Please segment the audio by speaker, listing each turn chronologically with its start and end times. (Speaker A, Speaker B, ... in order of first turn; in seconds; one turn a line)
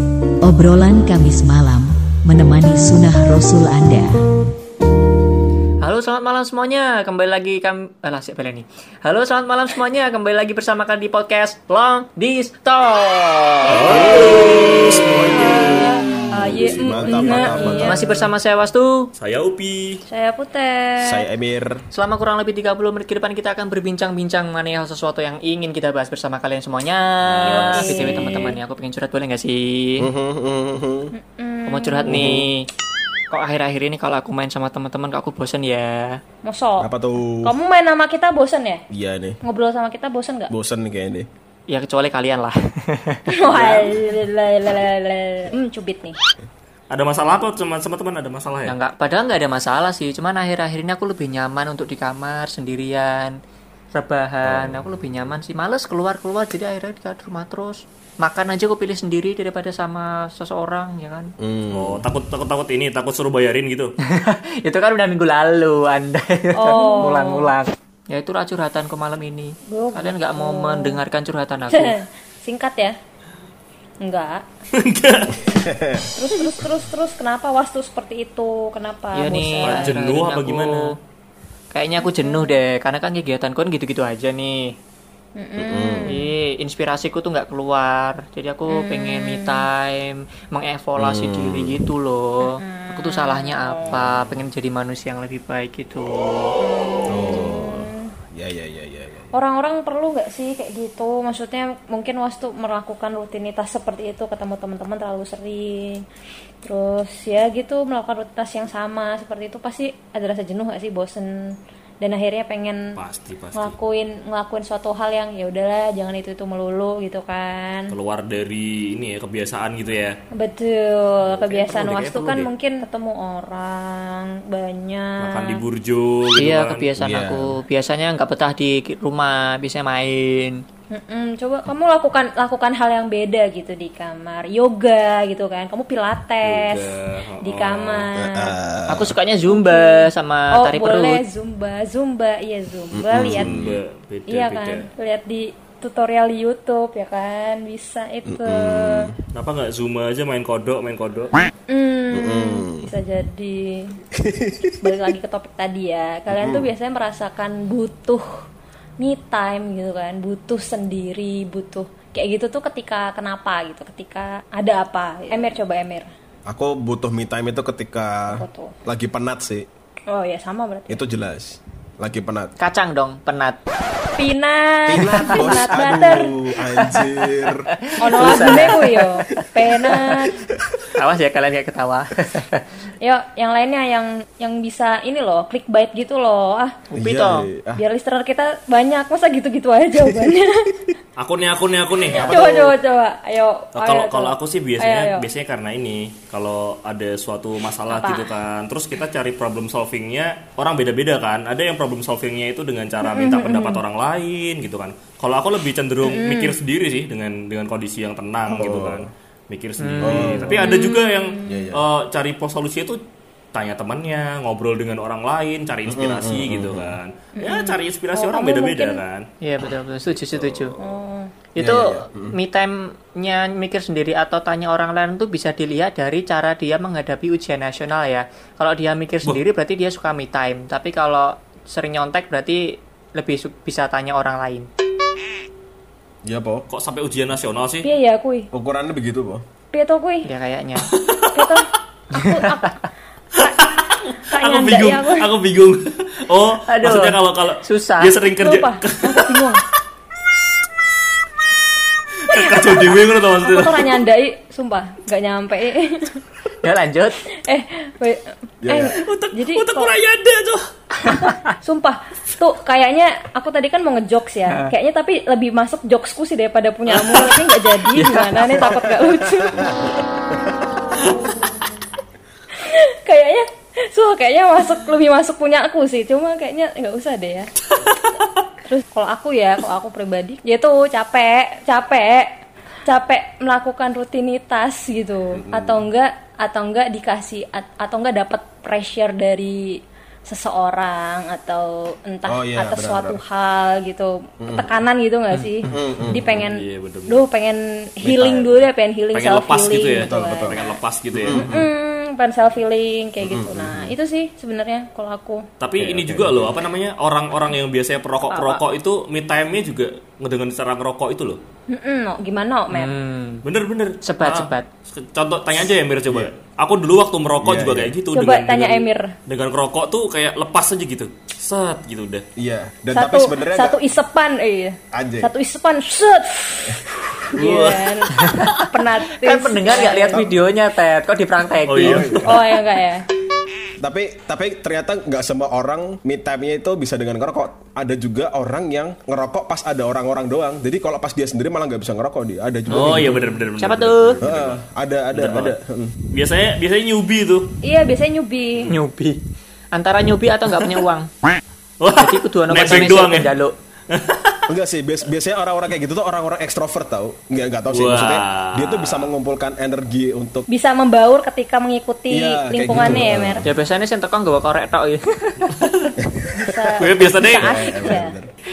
Speaker A: 0.4-4.2
Speaker B: 5.8-14.7
Speaker C: 13.7-18.1
Speaker D: 13.9-15.6
Speaker E: 15.3-18.2
Speaker D: 17.0-17.8
Speaker B: 17.4-19.1
Speaker D: 19.2-20.0
Speaker E: 20.1-21.2
Speaker C: 21.0-21.8
Speaker B: 21.9-30.1
Speaker D: 27.3-28.4
Speaker E: 27.8-28.6
Speaker C: 30.0-31.1
Speaker E: 31.1-32.3
Speaker B: 31.7-32.7
Speaker C: 32.1-32.5
Speaker B: 33.3-36.2
Speaker E: 36.4-36.9
Speaker C: 36.8-37.5
Speaker E: 37.4-38.8
Speaker C: 38.9-39.4
Speaker E: 39.4-40.5
Speaker C: 40.5-41.3
Speaker B: 41.7-43.3
Speaker E: 43.3-46.2
Speaker C: 43.5-43.9
Speaker D: 46.9-48.8
Speaker B: 48.7-53.4
Speaker B: 54.0-61.3
Speaker C: 54.4-54.9
Speaker C: 61.4-62.1
Speaker D: 61.7-63.9
Speaker B: 64.0-72.0
Speaker E: 66.5-67.5
Speaker E: 69.7-71.0
Speaker E: 71.7-73.0
Speaker E: 74.0-74.5
Speaker D: 74.7-75.6
Speaker C: 75.4-76.1
Speaker E: 76.1-79.9
Speaker B: 79.1-81.0
Speaker D: 79.6-81.0
Speaker B: 81.7-84.8
Speaker E: 82.0-82.6
Speaker E: 85.4-86.3
Speaker C: 85.6-86.1
Speaker B: 86.1-96.6
Speaker E: 88.7-89.7
Speaker C: 91.0-91.8
Speaker E: 92.4-94.0
Speaker E: 96.6-98.1
Speaker C: 97.1-99.3
Speaker E: 99.3-106.0
Speaker E: 106.6-113.0
Speaker D: 113.0-113.8
Speaker E: 113.5-117.9
Speaker D: 117.9-120.2
Speaker E: 120.3-125.6
Speaker D: 121.2-122.5
Speaker D: 125.2-126.9
Speaker B: 126.4-130.6
Speaker C: 127.0-127.6
Speaker E: 130.9-138.5
Speaker D: 136.4-138.1
Speaker C: 138.2-139.2
Speaker B: 138.9-141.2
Speaker E: 139.5-143.5
Speaker C: 143.0-143.8
Speaker D: 143.3-144.9
Speaker E: 144.3-149.1
Speaker C: 148.2-149.1
Speaker D: 149.3-151.5
Speaker E: 151.7-154.0
Speaker C: 152.1-152.9
Speaker C: 154.1-155.0
Speaker E: 154.8-158.5
Speaker C: 156.3-156.7
Speaker E: 159.0-166.1
Speaker C: 166.5-169.7
Speaker E: 168.3-168.8
Speaker E: 170.1-171.0
Speaker C: 170.9-172.5
Speaker B: 172.6-173.6
Speaker E: 174.2-176.3
Speaker C: 174.9-177.7
Speaker B: 176.7-180.2
Speaker E: 178.0-180.4
Speaker C: 178.2-178.8
Speaker C: 180.3-180.8
Speaker B: 180.9-182.6
Speaker E: 183.0-186.8
Speaker B: 186.9-187.5
Speaker C: 187.0-187.8
Speaker E: 187.8-190.8
Speaker C: 190.0-190.3
Speaker D: 191.2-192.4
Speaker C: 192.1-192.8
Speaker E: 192.1-195.3
Speaker D: 193.8-213.0
Speaker E: 197.9-198.3
Speaker E: 203.0-203.8
Speaker E: 206.0-206.6
Speaker C: 208.5-209.1
Speaker B: 209.8-210.6
Speaker C: 210.0-210.6
Speaker E: 210.6-211.7
Speaker C: 211.4-211.8
Speaker D: 213.5-219.3
Speaker C: 215.9-217.0
Speaker E: 217.4-219.0
Speaker B: 219.4-220.8
Speaker D: 220.3-220.9
Speaker E: 220.8-221.3
Speaker B: 221.6-234.7
Speaker C: 221.6-222.3
Speaker C: 236.2-236.7
Speaker D: 236.7-237.9
Speaker E: 237.8-238.5
Speaker C: 238.5-239.4
Speaker E: 239.7-240.3
Speaker B: 240.2-240.9
Speaker D: 240.9-241.6
Speaker E: 241.3-242.8
Speaker B: 242.2-242.5
Speaker D: 243.4-249.6
Speaker E: 244.3-245.3
Speaker B: 246.7-248.2
Speaker E: 248.3-249.6
Speaker D: 252.2-254.0
Speaker E: 252.3-256.2
Speaker B: 256.6-257.2
Speaker E: 257.4-259.9
Speaker C: 258.6-259.0
Speaker D: 258.9-260.7
Speaker B: 261.0-261.5
Speaker E: 261.1-269.8
Speaker D: 266.9-268.1
Speaker B: 268.0-268.5
Speaker C: 269.5-269.8
Speaker E: 271.0-271.5
Speaker E: 272.6-277.6
Speaker E: 278.6-282.3
Speaker E: 282.9-300.8
Speaker C: 285.3-285.9
Speaker C: 292.3-293.2
Speaker C: 295.7-296.4
Speaker D: 296.2-297.2
Speaker C: 298.0-298.5
Speaker D: 299.1-301.6
Speaker C: 300.0-300.6
Speaker C: 301.1-301.7
Speaker E: 301.3-305.5
Speaker C: 303.2-303.9
Speaker D: 305.6-311.4
Speaker C: 305.8-306.5
Speaker E: 308.3-308.6
Speaker E: 311.7-312.9
Speaker B: 312.7-313.4
Speaker D: 313.4-322.2
Speaker B: 314.0-314.7
Speaker C: 317.4-317.9
Speaker E: 318.1-319.1
Speaker C: 322.4-323.8
Speaker E: 322.9-330.2
Speaker C: 324.9-325.3
Speaker C: 326.7-327.9
Speaker D: 327.3-328.0
Speaker B: 328.2-328.6
Speaker B: 329.2-332.2
Speaker D: 331.7-332.5
Speaker C: 331.8-332.4
Speaker E: 332.2-333.1
Speaker C: 333.8-343.2
Speaker D: 342.7-344.6
Speaker B: 342.7-344.2
Speaker C: 344.2-346.0
Speaker D: 345.1-345.5
Speaker D: 346.1-347.5
Speaker E: 347.6-348.7
Speaker B: 348.7-349.2
Speaker B: 349.7-351.1
Speaker D: 351.8-353.3
Speaker B: 352.0-353.6
Speaker D: 353.9-354.4
Speaker C: 354.5-360.5
Speaker D: 357.7-359.1
Speaker E: 360.5-363.5
Speaker C: 362.1-363.5
Speaker B: 363.4-365.5
Speaker C: 366.0-368.3
Speaker E: 366.4-368.1
Speaker D: 366.8-368.0